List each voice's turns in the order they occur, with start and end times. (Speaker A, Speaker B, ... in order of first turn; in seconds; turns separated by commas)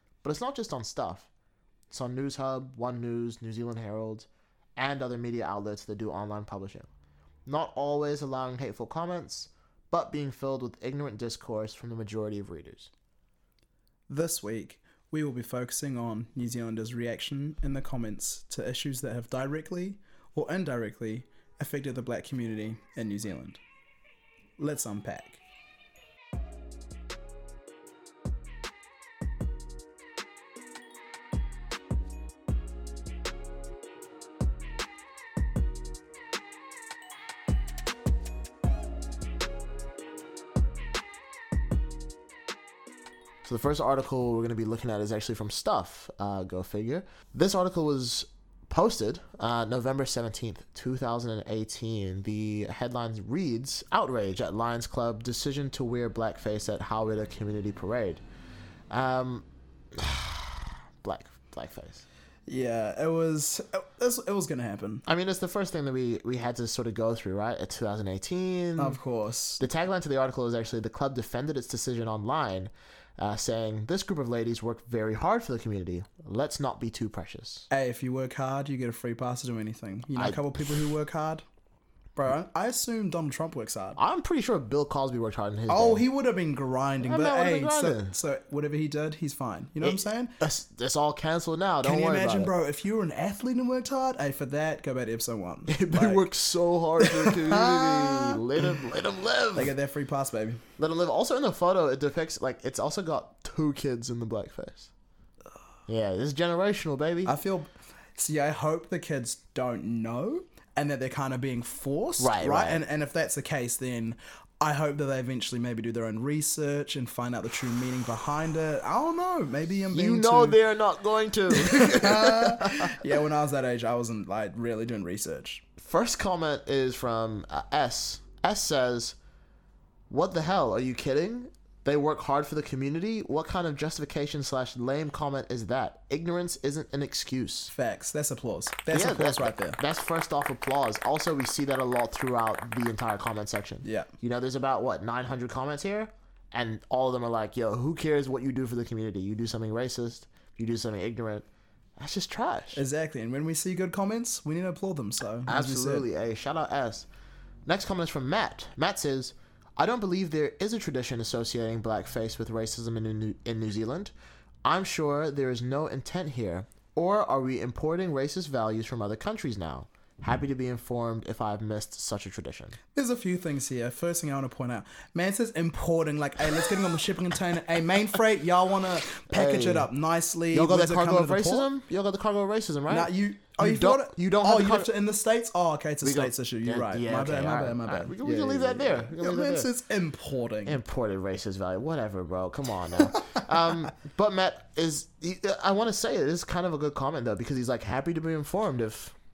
Speaker A: 0.2-1.3, Speaker A: 1.9-6.9, Speaker A: 7.5-12.9, Speaker B: 14.1-23.6, Speaker B: 24.6-25.4, Speaker A: 43.4-58.2, Speaker A: 58.9-62.0, Speaker B: 62.5-65.0, Speaker A: 65.0-69.0, Speaker B: 68.8-69.6, Speaker A: 69.6-77.7, Speaker B: 77.7-81.4, Speaker A: 80.2-80.7, Speaker B: 82.2-84.0, Speaker A: 84.0-86.0, Speaker B: 85.7-90.3, Speaker A: 87.0-88.1, Speaker A: 89.8-92.5, Speaker B: 91.8-96.2, Speaker A: 95.7-99.7, Speaker B: 97.0-98.4, Speaker B: 99.5-100.6, Speaker A: 100.8-104.9, Speaker A: 105.9-107.3, Speaker B: 107.2-120.6, Speaker A: 112.2-112.8, Speaker A: 119.9-123.0, Speaker B: 121.5-125.6, Speaker A: 125.8-129.2, Speaker A: 130.1-137.7, Speaker B: 137.7-139.8, Speaker A: 138.9-151.4, Speaker B: 143.8-144.1, Speaker A: 152.0-152.8, Speaker B: 152.7-156.1, Speaker A: 155.5-157.1, Speaker A: 157.7-164.1, Speaker A: 164.6-172.8, Speaker B: 172.9-181.7, Speaker A: 179.3-179.9, Speaker A: 180.5-184.9, Speaker B: 182.9-190.8, Speaker A: 186.0-189.7, Speaker A: 190.7-199.1, Speaker B: 193.0-193.4